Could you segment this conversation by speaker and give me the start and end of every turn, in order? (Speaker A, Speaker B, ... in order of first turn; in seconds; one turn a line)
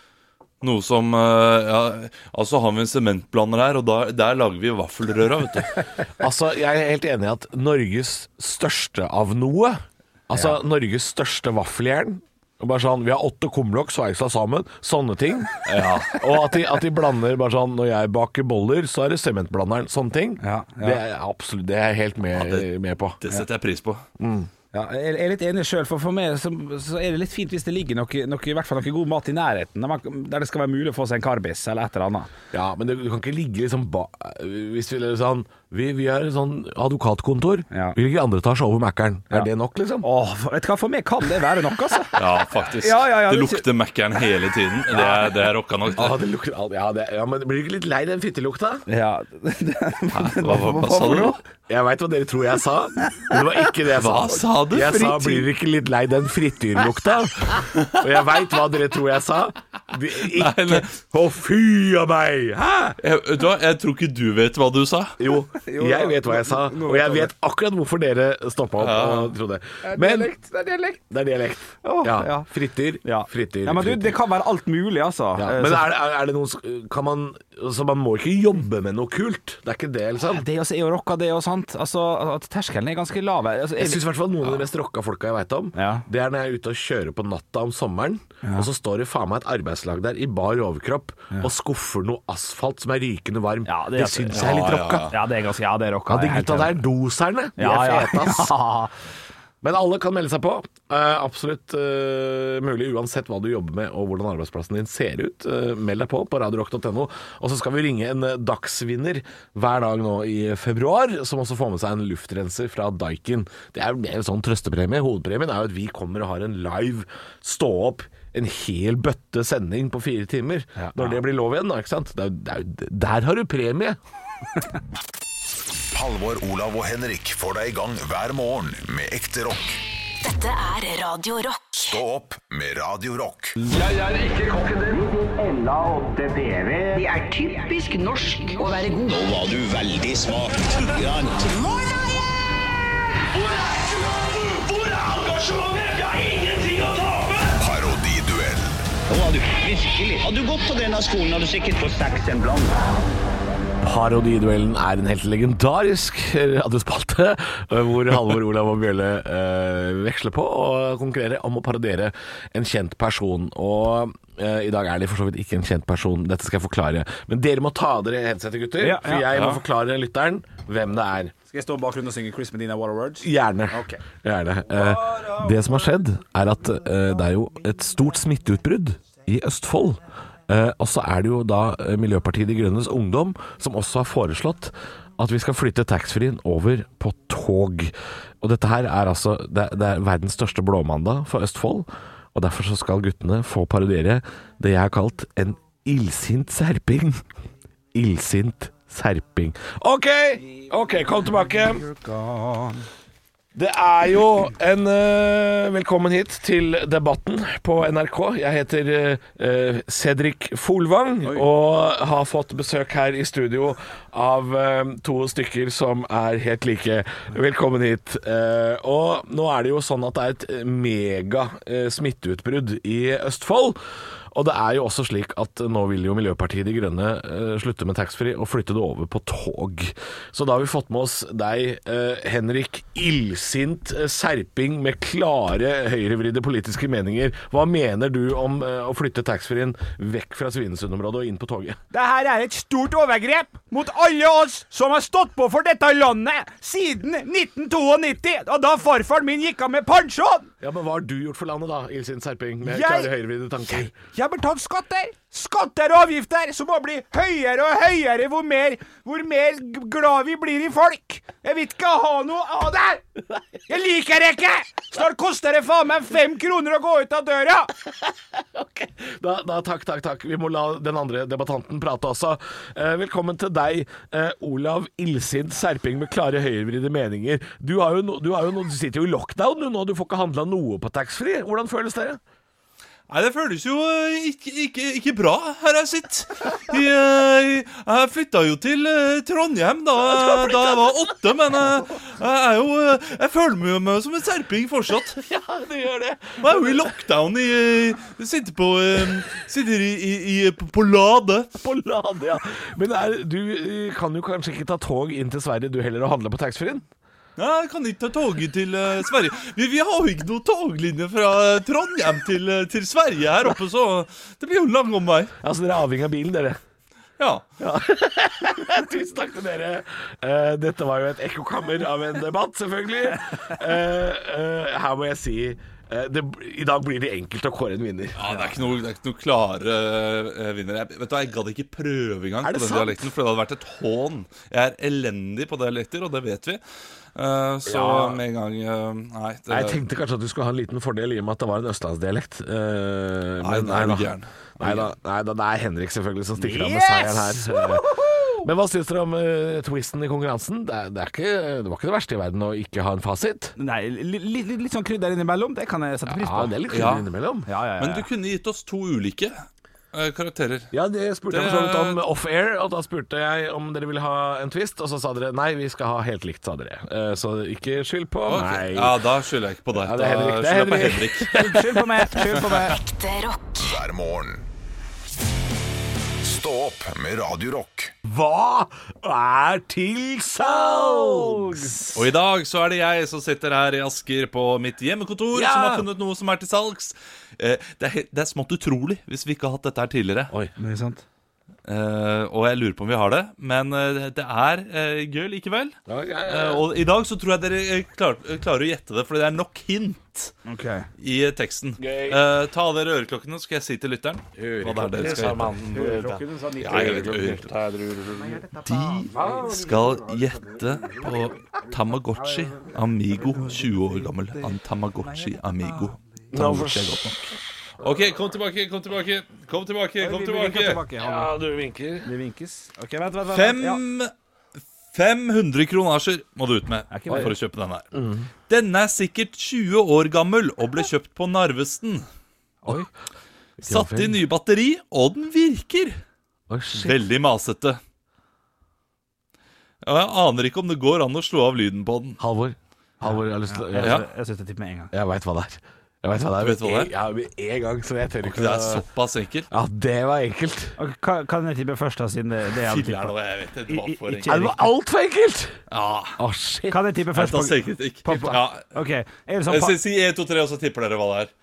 Speaker A: 0.6-5.7
Speaker B: 6.2-23.2
Speaker A: 15.7-16.2
Speaker C: 20.4-21.0
Speaker A: 22.4-22.7
Speaker A: 23.2-24.0
Speaker B: 24.2-24.5
Speaker C: 24.7-32.3
Speaker B: 32.5-40.1
Speaker C: 37.7-38.0
Speaker C: 40.0-42.2
Speaker A: 42.2-46.2
Speaker C: 42.8-43.6
Speaker C: 44.9-45.3
Speaker B: 45.9-48.9
Speaker C: 48.9-51.4
Speaker A: 50.1-51.4
Speaker B: 51.7-63.0
Speaker A: 53.9-55.0
Speaker C: 54.8-55.5
Speaker A: 57.7-58.0
Speaker A: 60.3-60.9
Speaker A: 63.0-65.2
Speaker B: 65.2-74.2
Speaker C: 65.5-67.3
Speaker A: 68.8-69.3
Speaker C: 69.8-70.9
Speaker C: 71.8-72.5
Speaker C: 73.0-75.9
Speaker B: 75.4-80.4
Speaker C: 80.2-84.0
Speaker B: 83.8-95.1
Speaker C: 85.8-86.1
Speaker C: 88.4-88.7
Speaker C: 93.7-96.8
Speaker A: 94.3-95.2
Speaker B: 96.1-98.6
Speaker C: 97.6-98.9
Speaker B: 99.6-124.0
Speaker C: 120.8-121.2
Speaker D: 125.9-129.8
Speaker E: 130.2-131.8
Speaker D: 131.8-133.6
Speaker F: 133.6-142.0
Speaker F: 143.3-147.6
Speaker D: 147.6-148.8
Speaker F: 149.1-152.9
Speaker B: 153.8-171.3
Speaker C: 168.8-169.3
Speaker A: 169.3-169.6
Speaker C: 171.5-174.0
Speaker B: 173.2-197.2
Speaker B: 197.9-201.9
Speaker C: 201.6-202.9
Speaker B: 203.5-223.8
Speaker B: 224.3-241.8
Speaker C: 241.9-250.5
Speaker B: 250.6-253.9
Speaker C: 252.6-253.1
Speaker C: 253.7-263.0
Speaker C: 263.7-267.7
Speaker B: 268.1-282.2
Speaker A: 283.1-295.2
Speaker B: 290.0-291.0
Speaker B: 295.2-296.9
Speaker A: 296.4-301.5
Speaker B: 301.6-306.9
Speaker A: 307.4-315.3
Speaker B: 315.4-316.6
Speaker A: 317.2-317.4
Speaker B: 317.6-328.2
Speaker A: 328.2-336.6
Speaker B: 332.4-333.0
Speaker A: 337.1-339.8
Speaker B: 337.7-338.2
Speaker B: 339.5-353.5
Speaker A: 343.4-344.9
Speaker C: 346.4-348.5
Speaker C: 353.6-356.7
Speaker B: 356.1-357.5
Speaker A: 356.7-357.1
Speaker C: 357.5-358.1
Speaker A: 357.8-359.4
Speaker A: 359.9-360.7
Speaker B: 360.7-369.0
Speaker A: 361.3-362.0
Speaker A: 368.3-371.4
Speaker B: 369.8-372.1
Speaker C: 371.3-372.8
Speaker E: 372.5-373.6
Speaker D: 373.6-374.4
Speaker D: 376.2-377.9
Speaker B: 378.1-382.0
Speaker C: 380.6-381.8
Speaker A: 381.9-390.3
Speaker B: 385.3-385.9
Speaker C: 390.6-391.0
Speaker A: 391.7-400.3
Speaker B: 395.9-396.7
Speaker C: 400.5-400.9
Speaker A: 401.0-405.5
Speaker B: 401.8-402.2
Speaker B: 404.4-408.4
Speaker C: 405.1-407.2
Speaker A: 406.6-407.5
Speaker C: 408.2-408.6
Speaker A: 408.6-417.0
Speaker B: 409.1-410.0
Speaker C: 415.1-416.4
Speaker B: 416.3-417.4
Speaker A: 417.8-420.8
Speaker C: 420.0-421.4
Speaker B: 421.0-422.1
Speaker C: 422.0-423.8
Speaker A: 423.3-424.1
Speaker A: 424.9-427.9
Speaker C: 426.9-427.3
Speaker B: 427.9-428.3
Speaker A: 428.5-432.1
Speaker C: 432.6-432.9
Speaker B: 433.6-434.2
Speaker A: 433.6-436.0
Speaker B: 436.5-437.0
Speaker A: 436.7-437.8
Speaker A: 439.8-442.2
Speaker B: 442.2-444.1
Speaker C: 443.0-444.9
Speaker A: 443.8-444.1
Speaker B: 444.9-448.9
Speaker A: 446.4-446.9
Speaker A: 448.2-449.5
Speaker B: 449.5-450.8
Speaker C: 450.8-453.1
Speaker A: 452.6-454.4
Speaker C: 453.7-454.7
Speaker B: 454.3-455.6
Speaker A: 455.7-456.2
Speaker B: 456.2-456.8
Speaker C: 456.7-459.8
Speaker A: 457.1-458.7
Speaker B: 458.1-458.4
Speaker A: 459.5-461.3